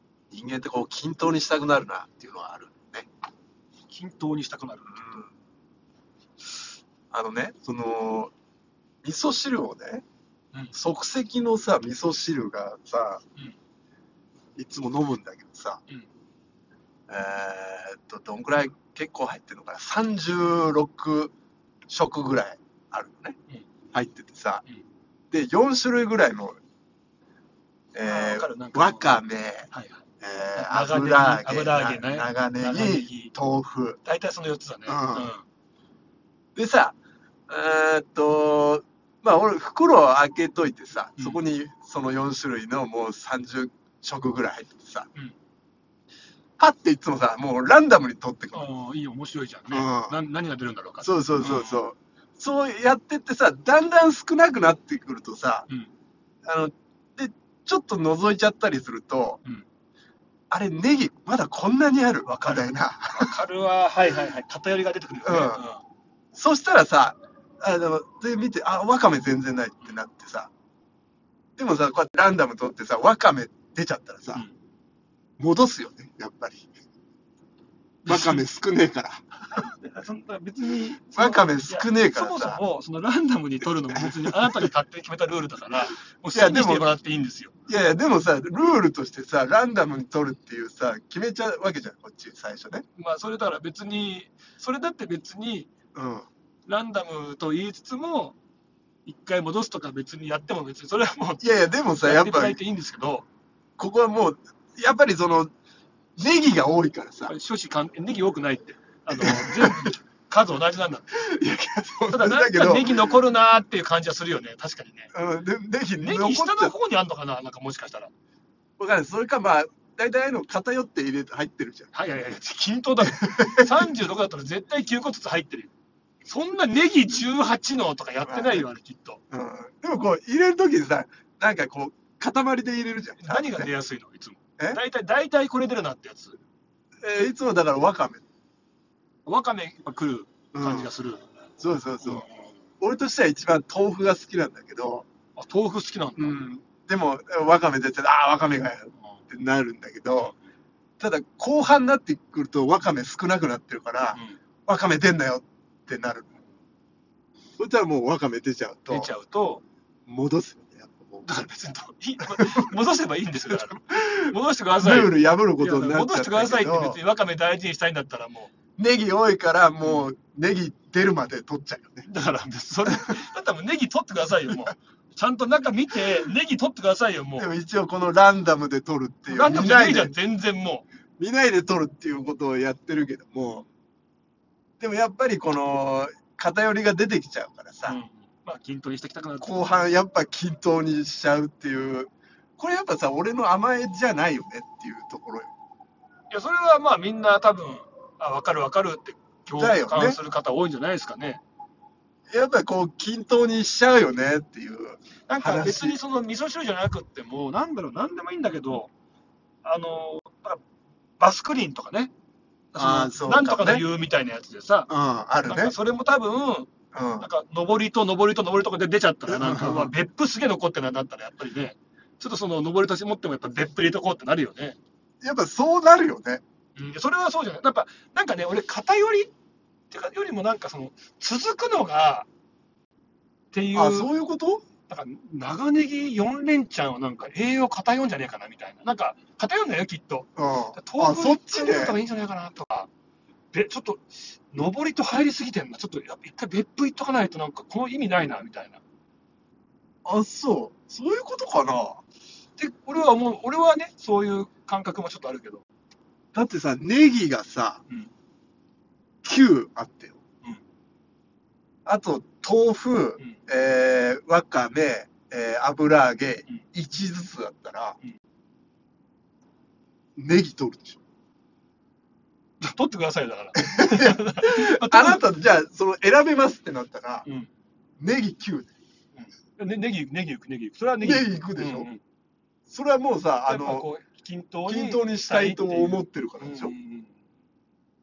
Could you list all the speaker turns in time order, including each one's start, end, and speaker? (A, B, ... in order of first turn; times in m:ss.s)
0:00.3-0:03.1 A
0:03.9-0:05.0 B
0:04.9-0:05.3 A
0:07.1-0:08.3 A
0:09.0-0:10.0 A
0:10.7-0:13.2 A
0:14.6-0:15.8 A
0:17.1-0:21.3 A
0:21.9-0:23.4 A
0:23.9-0:24.6 A
0:25.3-0:26.6 A
0:27.9-0:29.7 A
0:28.0-0:29.2 B
0:29.7-0:30.0 B
0:30.2-0:34.0 A
0:30.6-0:33.3 B
0:34.0-0:35.4 B
0:34.9-0:35.3 A
0:36.5-0:36.9 A
0:37.5-0:45.1 A
0:46.6-0:48.7 A
0:48.5-0:51.8 B
0:49.7-0:50.2 A
0:51.0-0:55.7 A
0:56.4-0:59.4 A
1:00.5-1:03.3 A
1:03.2-1:05.8 B
1:05.2-1:05.6 A
1:06.3-1:10.5 A
1:11.6-1:14.4 A
1:15.4-1:16.7 A
1:18.0-1:18.4 B
1:18.1-1:19.2 A
1:19.5-1:27.5 B
1:21.1-1:22.6 A
1:24.0-1:24.6 A
1:26.3-1:26.9 A
1:27.7-1:32.8 A
1:33.0-1:35.7 B
1:35.9-1:36.3 A
1:36.7-1:38.4 B
1:39.0-1:41.4 B
1:41.4-1:42.6 A
1:42.0-1:43.2 B
1:43.8-1:45.5 A
1:46.2-1:47.3 A
1:47.3-1:51.1 B
1:49.1-1:49.9 A
1:51.1-1:53.2 A
1:52.1-1:55.1 B
1:55.1-1:56.7 A
1:56.0-1:58.1 B
1:58.8-2:01.9 A
2:01.9-2:05.7 B
2:03.0-2:03.8 A
2:06.2-2:09.2 B
2:08.2-2:08.7 A
2:09.3-2:13.7 A
2:13.2-2:16.4 B
2:17.0-2:18.2 A
2:19.2-2:21.2 B
2:20.5-2:20.9 A
2:21.6-2:22.3 A
2:22.0-2:22.5 B
2:22.8-2:25.0 A
2:25.4-2:26.4 B
2:26.2-2:30.3 A
2:31.0-2:36.3 A
2:34.1-2:34.4 B
2:37.6-2:39.1 A
2:38.9-2:39.6 B
2:40.1-2:41.3 A
2:41.2-2:48.5 B
2:42.3-2:42.7 A
2:43.9-2:47.0 A
2:48.8-2:52.1 A
2:52.0-2:57.5 B
2:57.4-3:00.1 A
2:59.3-3:00.8 B
3:01.2-3:03.6 A
3:04.8-3:08.0 A
3:07.8-3:09.9 B
3:09.4-3:15.5 A
3:16.3-3:21.4 B
3:19.5-3:20.2 A
3:22.3-3:26.0 A
3:25.3-3:28.9 B
3:29.6-3:30.6 B
3:31.2-3:32.1 B
3:32.7-3:34.9 B
3:32.7-3:33.8 A
3:34.9-3:35.8 A
3:35.4-3:44.8 B
3:36.9-3:37.3 A
3:39.3-3:39.9 A
3:45.2-3:46.4 A
3:46.8-3:49.3 B
3:49.9-3:52.3 B
3:53.5-3:54.1 B
3:53.7-3:54.6 A
3:54.9-4:02.9 B
4:00.4-4:02.0 A
4:03.5-4:08.8 B
4:10.0-4:12.0 A
4:12.6-4:15.6 B
4:16.3-4:17.8 A
4:19.2-4:20.2 A
4:21.8-4:28.0 A
4:30.2-4:31.0 A
4:32.6-4:35.2 B
4:33.6-4:37.2 A
4:37.2-4:37.5 B
4:38.0-4:38.7 A
4:39.2-4:42.0 B
4:41.0-4:41.9 A
4:42.7-4:43.9 A
4:43.4-4:47.1 B
4:44.7-4:46.7 A